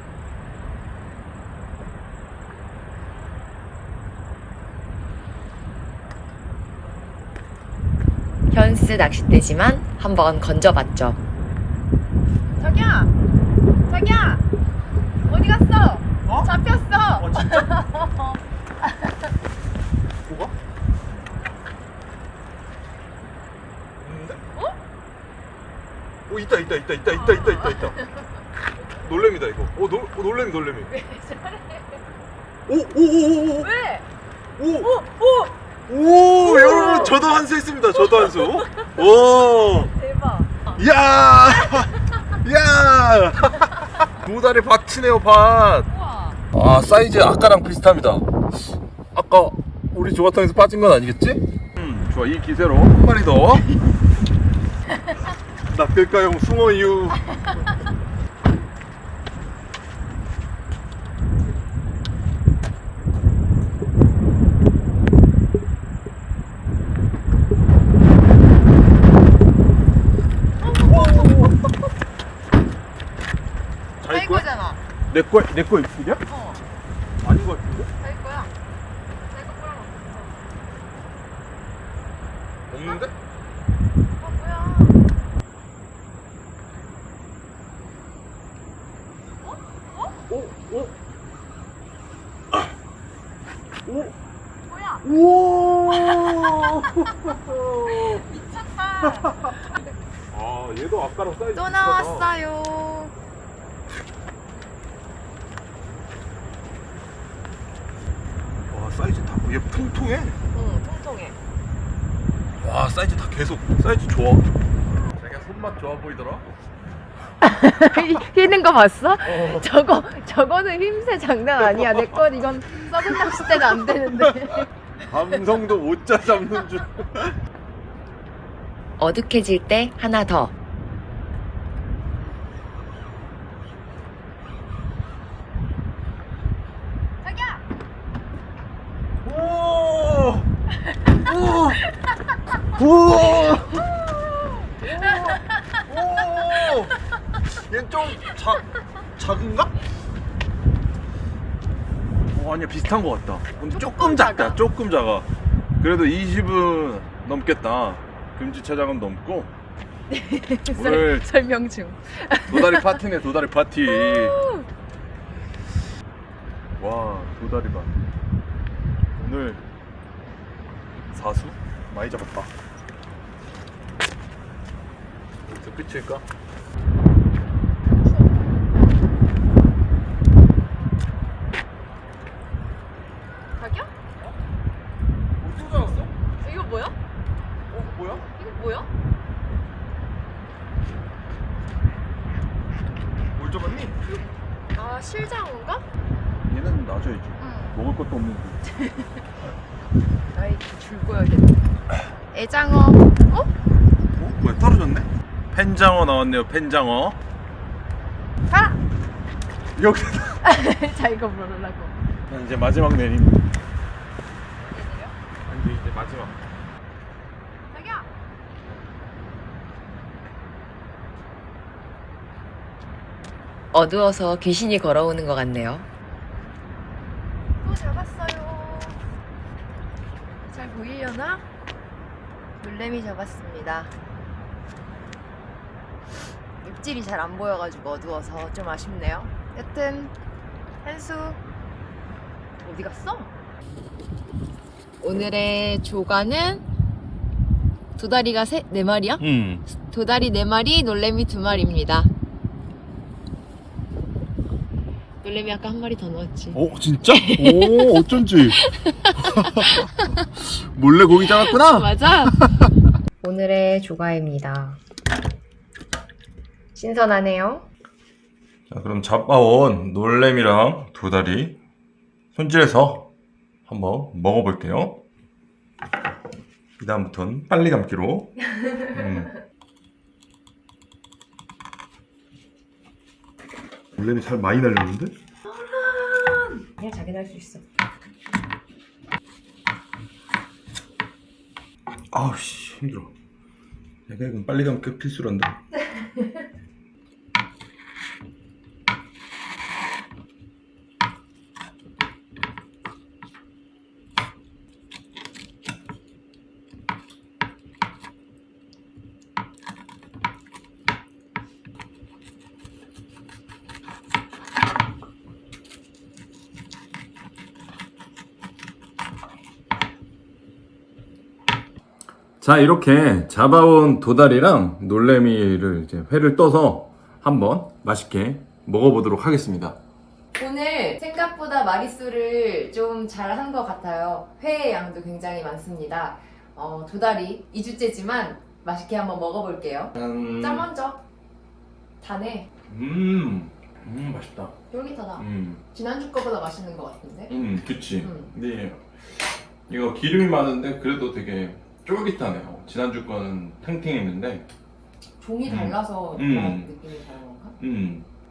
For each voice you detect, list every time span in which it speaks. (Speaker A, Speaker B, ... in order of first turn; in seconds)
Speaker A: 8.5-11.2, 129.0-130.5, 223.7-225.9
Speaker B: 12.6-13.1, 13.9-14.4, 15.3-19.1, 27.1-28.3, 30.9-32.0, 33.6-34.1, 34.8-35.5, 36.4-37.2, 37.9-40.8, 41.5-41.9, 45.9-46.4, 70.6-71.5, 74.1-74.8, 76.3-76.6, 78.0-78.5, 79.3-80.5, 84.2-85.0, 89.4-90.2, 94.7-95.0, 95.9-96.9, 97.9-99.9, 101.5-103.1, 110.5-111.4, 117.4-124.7, 137.2-137.6, 143.2-145.8, 146.5-146.8, 153.6-154.6, 160.1-163.0, 163.8-164.7, 177.8-178.3, 183.6-183.9, 186.4-186.9, 188.3-188.9, 194.7-195.8, 197.4-197.8, 198.7-199.1, 200.3-201.6, 202.3-203.5, 208.5-208.8, 210.4-211.9, 214.6-215.1, 217.7-218.1, 227.6-229.0, 230.5-231.4, 232.6-233.9, 236.6-240.1, 240.8-241.4, 242.6-243.3, 245.0-246.6, 248.0-252.1, 255.2-260.2, 261.1-262.4, 263.2-264.8, 266.8-267.6, 285.5-287.6, 330.3-341.0, 342.0-342.5, 344.7-347.3, 348.0-348.3, 355.2-357.6
Speaker C: 17.2-17.7, 20.3-20.5, 24.0-24.4, 26.3-27.9, 29.0-30.9, 32.7-33.7, 34.6-34.9, 35.9-39.9, 40.8-45.9, 46.5-48.3, 49.1-53.7, 55.7-57.2, 70.8-71.6, 74.0-74.5, 75.1-76.2, 77.2-77.9, 82.7-83.1, 90.3-90.9, 93.9-94.1, 95.0-98.2, 99.0-99.5, 100.3-102.3, 108.7-110.4, 112.6-114.5, 115.1-116.5, 119.2-119.6, 121.6-122.2, 123.0-123.9, 125.1-127.4, 139.2-140.5, 141.2-141.8, 142.8-143.8, 144.8-146.9, 147.6-148.6, 149.2-149.7, 152.3-155.3, 155.8-159.5, 160.7-161.2, 162.5-164.3, 166.8-168.0, 169.2-169.6, 171.1-172.5, 175.5-176.2, 185.4-186.1, 187.7-188.3, 193.4-194.1, 196.5-198.6, 204.2-207.2, 209.8-210.4, 212.3-213.4, 215.5-216.3, 249.2-249.6, 256.5-258.6, 259.3-259.9, 260.8-261.9, 268.7-271.6, 272.4-273.1, 273.7-275.0, 276.8-278.4, 278.9-279.3, 284.0-285.1, 292.1-293.1, 294.1-295.6, 322.4-329.8, 340.0-340.7, 342.7-344.5, 345.2-345.6, 347.3-354.4, 355.4-356.7, 357.6-358.1